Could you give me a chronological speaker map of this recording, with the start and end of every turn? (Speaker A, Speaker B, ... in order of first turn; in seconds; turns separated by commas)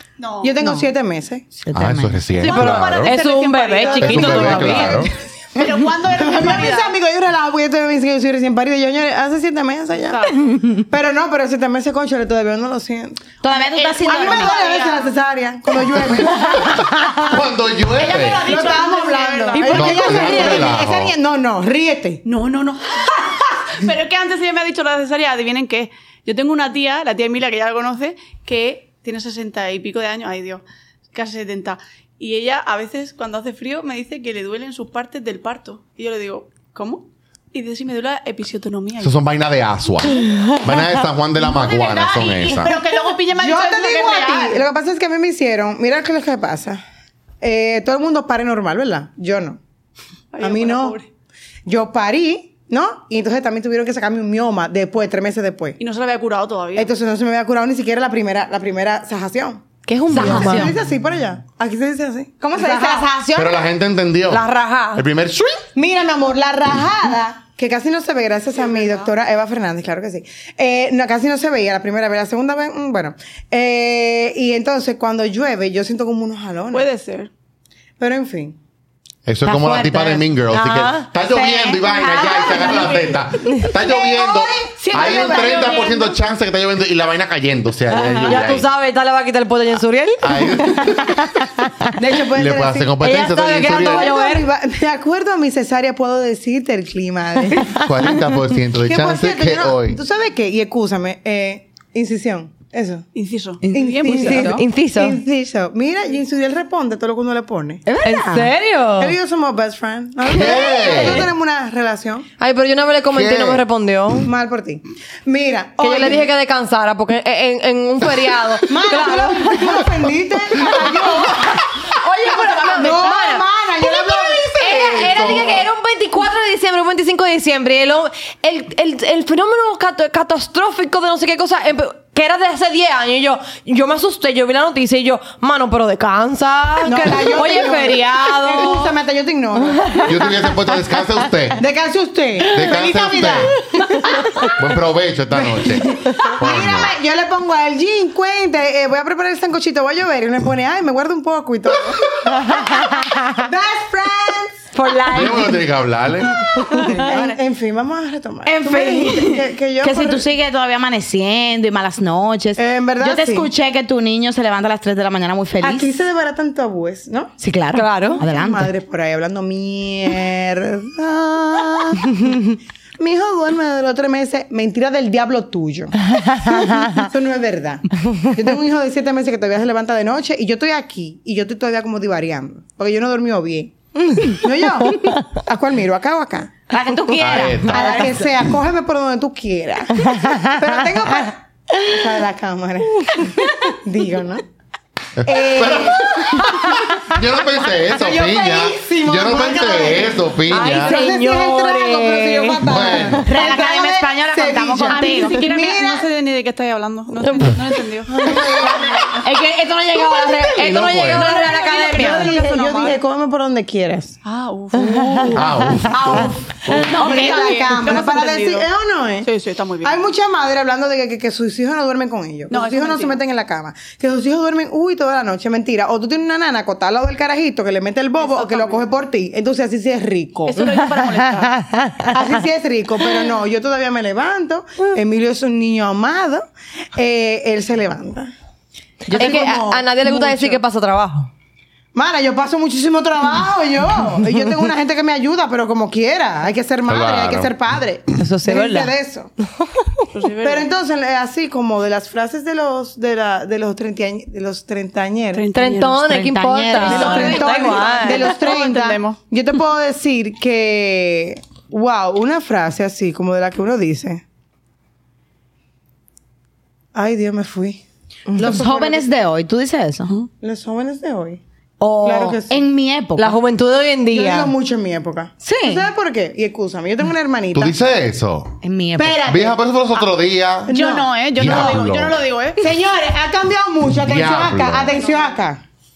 Speaker A: 0.2-0.6, Speaker B: 0.4-1.5, Speaker C: 1.6-2.2, Speaker D: 1.7-3.1, Speaker A: 2.4-6.9, Speaker E: 2.4-5.1, Speaker B: 3.8-5.1, Speaker D: 4.0-5.1, Speaker B: 6.1-13.2, Speaker A: 10.1-10.5, Speaker C: 13.4-14.6, Speaker A: 13.5-15.1, Speaker B: 14.0-17.3, Speaker D: 16.1-18.6, Speaker A: 17.9-20.8, Speaker B: 18.4-22.2, Speaker D: 19.7-21.1, Speaker A: 22.2-39.2, Speaker D: 39.0-42.8, Speaker A: 41.4-44.6, Speaker B: 43.3-46.8, Speaker B: 47.4-49.6, Speaker A: 50.3-51.1, Speaker B: 50.4-51.0, Speaker B: 51.6-55.8, Speaker A: 55.8-56.9, Speaker B: 56.7-63.1, Speaker E: 59.9-60.8, Speaker C: 60.1-60.7, Speaker C: 62.4-63.6, Speaker D: 63.3-65.6, Speaker E: 64.3-65.0, Speaker B: 65.7-76.9, Speaker A: 76.7-77.3, Speaker B: 78.0-78.6, Speaker D: 79.2-88.7, Speaker E: 79.5-81.1, Speaker C: 81.2-82.9, Speaker A: 82.3-83.1, Speaker B: 83.6-85.9, Speaker A: 84.8-86.2, Speaker E: 87.9-91.9, Speaker D: 90.2-91.3, Speaker B: 92.0-97.8, Speaker D: 92.3-94.1, Speaker E: 93.0-94.5, Speaker D: 97.7-100.0, Speaker B: 98.8-103.0, Speaker A: 103.1-104.6, Speaker C: 103.6-104.6, Speaker B: 103.7-107.8, Speaker E: 104.3-105.2, Speaker C: 107.8-108.5, Speaker E: 108.0-109.2, Speaker B: 109.0-112.3, Speaker D: 110.2-111.3, Speaker E: 110.8-111.2, Speaker E: 112.4-114.3, Speaker D: 113.1-113.6, Speaker B: 114.2-116.3, Speaker E: 115.8-119.8, Speaker B: 118.7-121.7, Speaker E: 120.8-138.9, Speaker B: 122.4-125.6, Speaker D: 124.6-125.6, Speaker B: 136.8-140.1, Speaker D: 140.0-141.6, Speaker B: 141.6-144.5, Speaker D: 142.5-143.5, Speaker D: 144.4-146.9, Speaker B: 145.3-152.3, Speaker E: 152.5-153.2, Speaker B: 153.3-154.7, Speaker C: 154.7-155.6, Speaker D: 155.1-156.4, Speaker B: 156.7-160.2, Speaker C: 156.7-157.3, Speaker C: 158.4-165.9, Speaker B: 162.6-163.5, Speaker B: 165.6-167.3, Speaker C: 167.4-168.7, Speaker E: 167.7-168.2, Speaker B: 168.2-186.5, Speaker E: 176.2-176.6, Speaker C: 186.7-188.1, Speaker E: 187.0-187.7, Speaker D: 187.2-188.3, Speaker B: 187.7-194.4, Speaker D: 195.2-201.0, Speaker B: 195.2-196.7, Speaker B: 197.9-206.0, Speaker E: 200.5-202.6, Speaker D: 202.6-203.3, Speaker C: 203.2-205.4, Speaker A: 204.9-209.0, Speaker E: 207.2-207.5, Speaker B: 208.1-209.2, Speaker C: 209.0-212.3, Speaker E: 210.2-212.1, Speaker D: 210.6-211.3, Speaker A: 211.0-213.0, Speaker B: 211.4-214.2, Speaker A: 214.2-215.5, Speaker E: 214.8-215.9, Speaker D: 215.3-216.3, Speaker B: 215.9-219.3, Speaker A: 216.7-218.7, Speaker A: 219.2-220.1, Speaker B: 219.8-230.7, Speaker A: 222.5-223.2, Speaker A: 228.2-228.8, Speaker A: 230.5-231.6, Speaker E: 231.2-232.1, Speaker B: 232.1-238.3, Speaker E: 239.1-241.3, Speaker B: 239.1-240.6, Speaker B: 241.9-249.3, Speaker D: 246.9-247.5, Speaker E: 248.2-248.9, Speaker A: 250.1-250.7, Speaker B: 250.4-255.5, Speaker A: 255.3-256.1, Speaker E: 255.5-258.3, Speaker C: 256.0-257.8, Speaker A: 256.8-259.2, Speaker B: 256.8-264.2, Speaker B: 266.9-269.1, Speaker C: 268.3-270.2, Speaker B: 270.4-271.4, Speaker C: 271.8-273.4, Speaker B: 272.0-272.6, Speaker E: 273.2-274.5, Speaker B: 274.1-277.8, Speaker C: 275.4-275.9, Speaker D: 277.5-278.6, Speaker C: 278.6-279.3, Speaker B: 279.0-279.6, Speaker D: 279.2-280.7, Speaker B: 280.7-281.8, Speaker A: 280.7-282.6, Speaker D: 281.3-282.2, Speaker B: 282.6-285.6, Speaker D: 284.0-284.9, Speaker A: 284.9-285.4